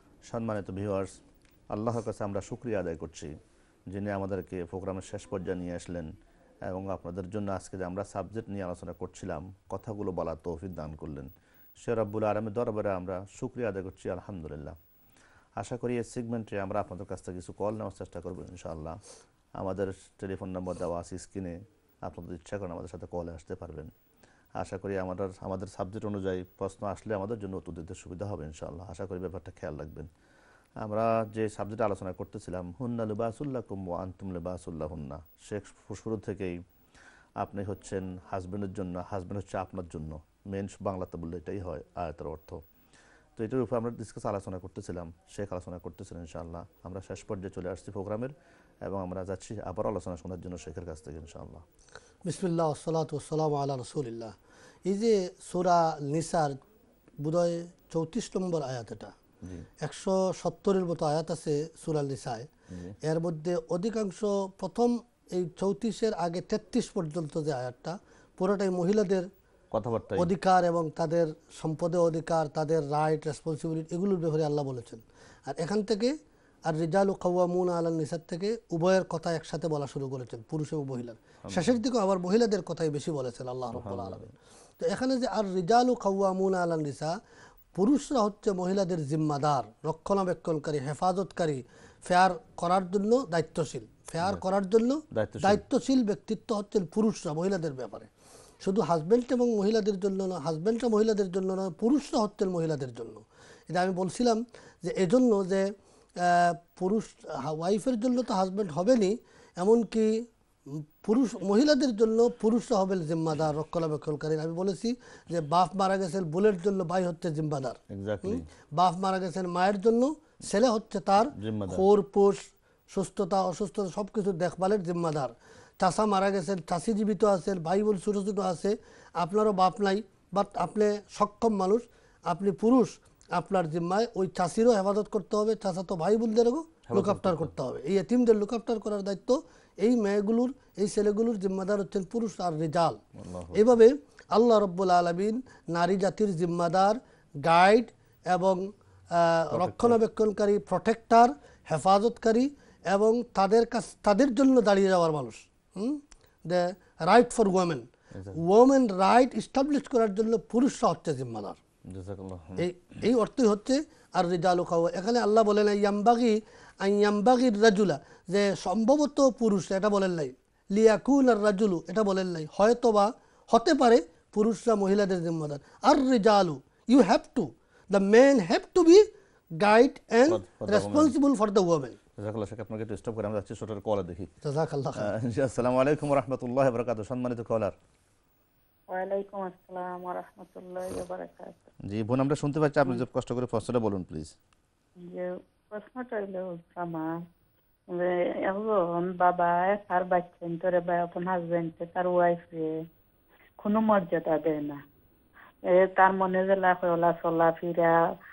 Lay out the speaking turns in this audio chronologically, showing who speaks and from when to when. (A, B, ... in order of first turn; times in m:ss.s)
0:00.2-0:03.4 A
0:03.9-0:06.1 A
0:06.6-0:14.8 A
0:15.6-0:19.0 A
0:19.6-0:23.9 A
0:24.6-0:30.1 A
0:30.8-0:36.6 A
0:37.4-0:42.6 A
0:43.4-0:51.6 A
0:52.2-0:54.4 B
0:54.8-0:56.6 B
0:57.2-0:59.1 B
0:59.8-1:02.5 B
1:02.7-1:03.0 A
1:03.0-1:09.3 B
1:09.7-1:10.3 A
1:10.2-1:24.3 B
1:21.4-1:21.7 A
1:23.7-1:24.3 A
1:24.8-1:27.2 B
1:27.7-1:38.1 B
1:35.1-1:35.6 A
1:38.6-2:23.0 B
1:57.9-1:58.4 A
2:01.3-2:01.8 A
2:16.9-2:17.5 A
2:23.2-2:23.6 A
2:23.5-2:41.6 B
2:29.5-2:30.0 A
2:38.1-2:38.4 A
2:41.9-2:42.7 A
2:42.6-3:02.0 B
3:00.3-3:01.1 A
3:02.2-3:04.3 A
3:04.4-3:05.1 B
3:05.0-3:07.8 A
3:08.9-3:11.7 C
3:11.8-3:14.3 A
3:15.0-3:17.1 C
3:17.9-3:22.7 C
3:23.6-3:24.8 C
3:25.7-3:28.0 C